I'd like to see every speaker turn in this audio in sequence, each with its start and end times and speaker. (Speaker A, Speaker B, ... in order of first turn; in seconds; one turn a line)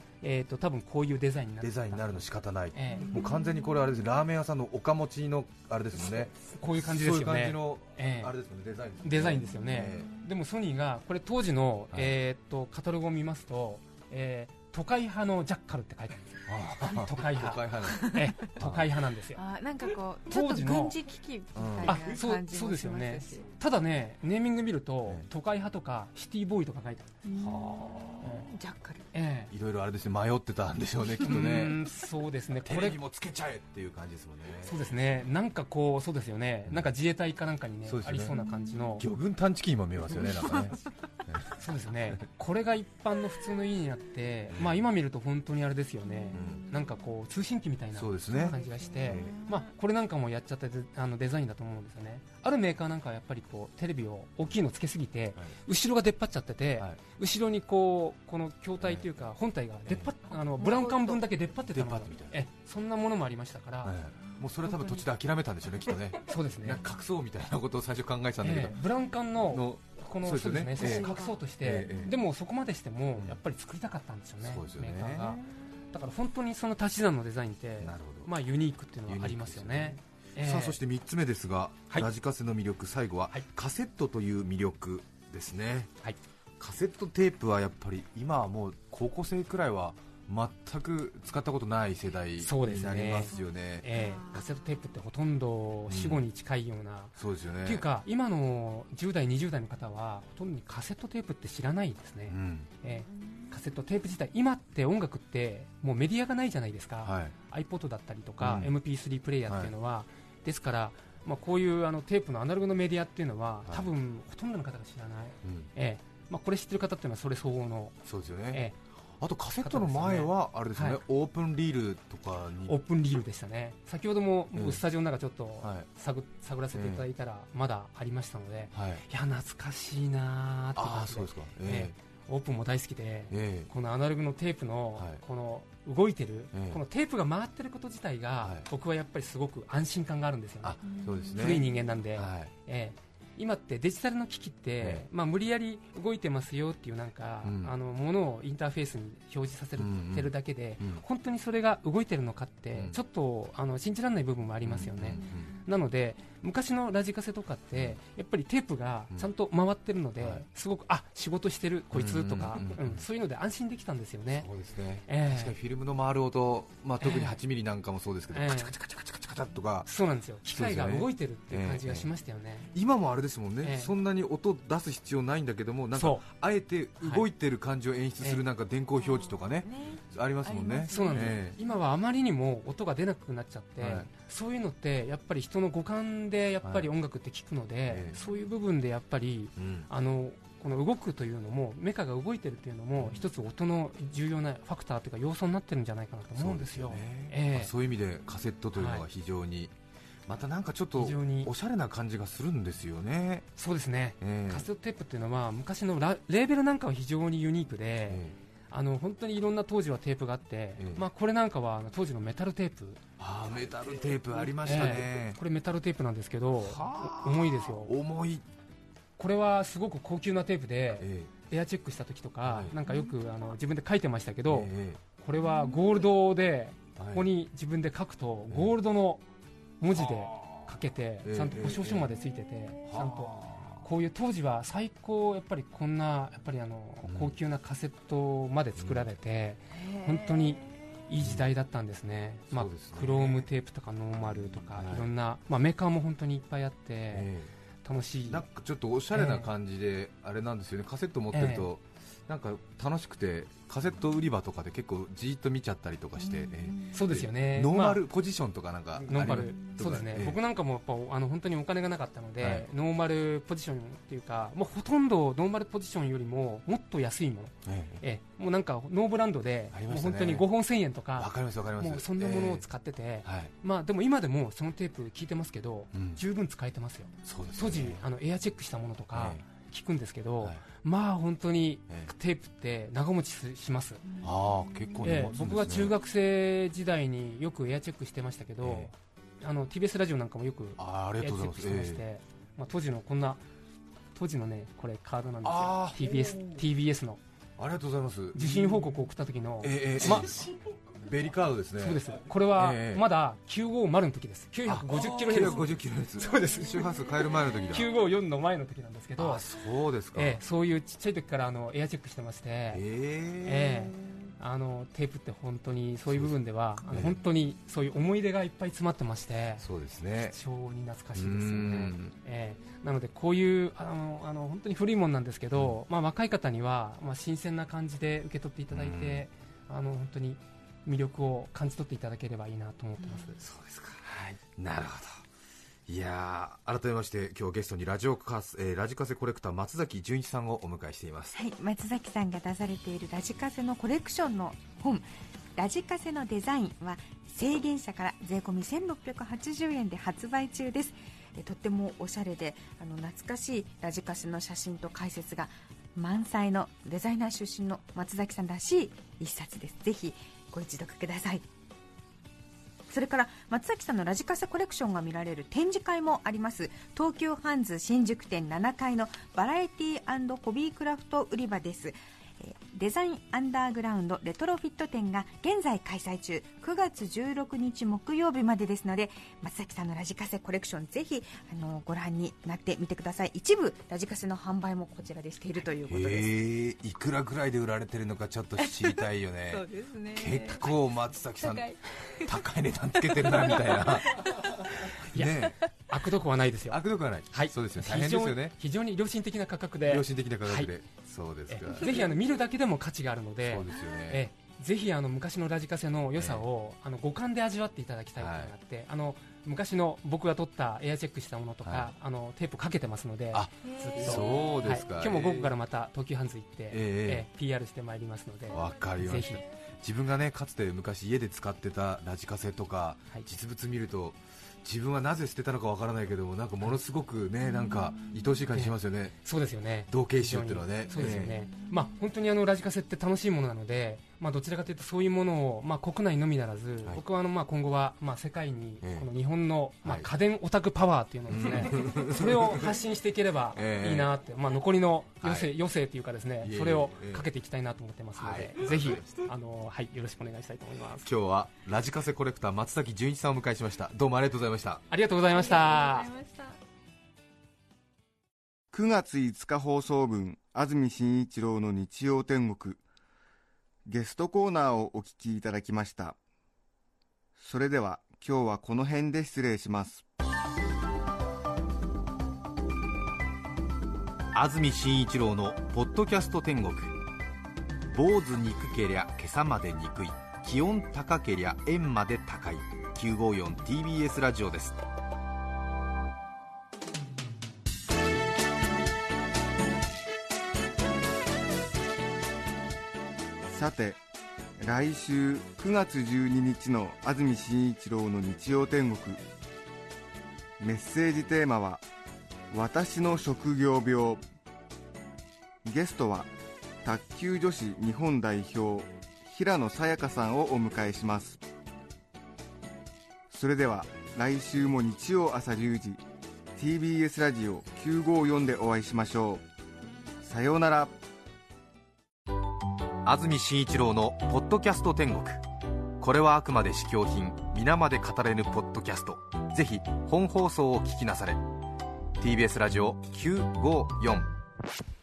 Speaker A: 0.2-3.2
Speaker B: 1.6-10.1
Speaker C: 2.9-4.0
Speaker A: 6.4-8.3
Speaker A: 9.0-19.4
Speaker C: 9.7-10.3
Speaker B: 16.5-18.9
Speaker C: 17.8-18.4
Speaker C: 19.4-23.5
Speaker A: 20.3-21.0
Speaker B: 21.6-22.2
Speaker A: 21.8-27.1
Speaker C: 27.2-29.1
Speaker B: 27.4-28.4
Speaker A: 28.2-28.5
Speaker A: 29.1-29.5
Speaker B: 29.5-31.8
Speaker A: 31.2-33.0
Speaker B: 32.6-35.0
Speaker A: 34.6-39.0
Speaker B: 36.7-36.9
Speaker B: 37.9-38.4
Speaker C: 38.4-39.0
Speaker B: 39.0-41.6
Speaker C: 40.2-40.9
Speaker A: 41.5-64.0
Speaker B: 44.5-44.9
Speaker C: 46.2-46.8
Speaker B: 46.3-46.6
Speaker B: 48.0-49.4
Speaker C: 48.3-49.7
Speaker B: 58.8-59.1
Speaker B: 59.9-60.1
Speaker C: 60.6-61.2
Speaker B: 61.7-62.4
Speaker B: 63.8-68.8
Speaker A: 66.3-66.8
Speaker A: 68.4-80.8
Speaker B: 69.5-72.1
Speaker C: 70.8-72.1
Speaker B: 74.4-75.4
Speaker B: 77.8-78.3
Speaker B: 79.1-85.9
Speaker B: 86.6-93.8
Speaker A: 92.4-118.0
Speaker C: 93.9-94.6
Speaker B: 95.9-96.2
Speaker B: 97.2-97.8
Speaker B: 102.3-102.7
Speaker C: 102.9-103.4
Speaker B: 107.0-107.3
Speaker B: 108.4-108.7
Speaker B: 113.7-113.9
Speaker B: 115.4-115.7
Speaker B: 118.0-118.7
Speaker A: 118.5-118.8
Speaker B: 119.2-122.8
Speaker A: 119.6-121.0
Speaker A: 122.7-164.5
Speaker B: 124.5-124.8
Speaker B: 125.6-125.9
Speaker B: 126.7-127.1
Speaker B: 128.7-129.1
Speaker B: 130.8-131.9
Speaker B: 133.3-133.7
Speaker B: 135.0-135.2
Speaker B: 136.5-136.8
Speaker B: 138.4-138.7
Speaker B: 140.6-142.5
Speaker C: 140.8-142.0
Speaker B: 144.8-145.1
Speaker B: 147.4-147.7
Speaker B: 149.8-151.0
Speaker B: 154.6-155.5
Speaker B: 157.7-158.0
Speaker B: 160.2-160.4
Speaker B: 161.9-163.1
Speaker B: 164.3-169.9
Speaker A: 165.1-165.6
Speaker A: 167.0-167.4
Speaker A: 168.3-168.8
Speaker A: 169.9-172.7
Speaker B: 170.5-172.1
Speaker B: 172.7-181.6
Speaker A: 173.6-173.9
Speaker A: 175.9-176.3
Speaker A: 177.0-177.3
Speaker C: 179.0-181.6
Speaker A: 180.9-197.7
Speaker B: 183.8-184.1
Speaker B: 186.6-186.9
Speaker B: 187.9-188.2
Speaker B: 189.6-189.9
Speaker B: 196.3-199.7
Speaker A: 198.8-199.1
Speaker B: 200.3-203.5
Speaker A: 200.9-201.5
Speaker A: 203.6-213.0
Speaker B: 204.2-204.7
Speaker B: 208.1-208.4
Speaker B: 210.8-211.0
Speaker B: 213.2-215.4
Speaker A: 214.5-217.9
Speaker B: 216.6-218.5
Speaker A: 219.2-229.2
Speaker B: 221.0-221.3
Speaker B: 222.4-222.8
Speaker B: 224.5-225.0
Speaker B: 227.0-227.3
Speaker A: 229.8-247.3
Speaker B: 230.0-230.6
Speaker B: 231.2-232.2
Speaker B: 232.9-233.8
Speaker B: 237.1-237.4
Speaker B: 238.8-239.1
Speaker C: 239.7-240.7
Speaker B: 241.2-241.5
Speaker B: 242.5-243.5
Speaker B: 244.7-245.1
Speaker B: 247.1-247.5
Speaker A: 247.8-248.4
Speaker B: 248.3-260.4
Speaker A: 249.1-249.5
Speaker A: 251.3-251.7
Speaker C: 256.2-256.8
Speaker A: 256.9-258.0
Speaker A: 259.0-284.1
Speaker B: 262.4-262.7
Speaker B: 267.6-268.0
Speaker B: 269.7-270.5
Speaker B: 271.2-272.7
Speaker B: 273.2-273.5
Speaker B: 275.9-276.2
Speaker B: 277.2-278.0
Speaker B: 279.1-279.4
Speaker C: 284.1-285.0
Speaker B: 284.2-285.9
Speaker A: 285.0-293.4
Speaker B: 288.6-288.9
Speaker B: 290.8-292.0
Speaker A: 294.1-297.2
Speaker B: 295.4-296.6
Speaker B: 297.6-298.9
Speaker A: 298.3-300.4
Speaker B: 299.6-302.0
Speaker A: 301.8-306.9
Speaker B: 302.5-303.1
Speaker B: 304.7-307.9
Speaker A: 307.7-309.5
Speaker B: 309.2-310.4
Speaker A: 310.1-312.8
Speaker B: 312.7-313.9
Speaker A: 313.4-319.6
Speaker B: 316.1-316.3
Speaker B: 316.9-317.2
Speaker B: 319.6-320.4
Speaker A: 320.3-333.4
Speaker B: 321.1-322.1
Speaker B: 328.7-329.3
Speaker B: 333.4-335.2
Speaker B: 335.9-341.4
Speaker D: 341.3-361.4
Speaker D: 362.9-386.3
Speaker B: 385.9-394.4
Speaker C: 388.6-390.8
Speaker C: 391.3-392.4
Speaker C: 393.0-394.6
Speaker B: 395.1-395.6
Speaker A: 395.1-396.8
Speaker B: 396.7-398.6
Speaker A: 397.3-400.7
Speaker B: 399.9-402.0
Speaker A: 401.5-419.4
Speaker B: 403.5-404.2
Speaker B: 406.2-406.4
Speaker B: 408.2-408.5
Speaker B: 411.6-411.9
Speaker B: 413.3-415.6
Speaker C: 413.6-414.7
Speaker B: 416.7-417.3
Speaker B: 418.5-429.1
Speaker C: 427.4-428.4
Speaker A: 428.5-451.1
Speaker B: 429.9-431.4
Speaker C: 431.0-432.0
Speaker B: 438.8-439.1
Speaker B: 441.3-442.7
Speaker B: 443.6-444.1
Speaker B: 445.2-445.5
Speaker B: 446.4-447.3
Speaker B: 448.2-449.3
Speaker B: 451.0-454.8
Speaker A: 454.9-456.1
Speaker C: 455.3-456.6
Speaker E: 458.7-462.8
Speaker E: 463.9-466.2
Speaker E: 467.4-470.0
Speaker B: 474.3-476.9
Speaker B: 477.9-484.8
Speaker E: 493.5-494.0
Speaker E: 494.6-499.2
Speaker E: 500.6-501.8
Speaker E: 502.5-504.2
Speaker E: 505.6-506.3
Speaker E: 506.9-511.4
Speaker E: 513.3-516.0
Speaker E: 516.6-519.4
Speaker E: 520.2-521.0
Speaker B: 523.0-525.4
Speaker B: 526.0-531.4
Speaker B: 532.2-534.3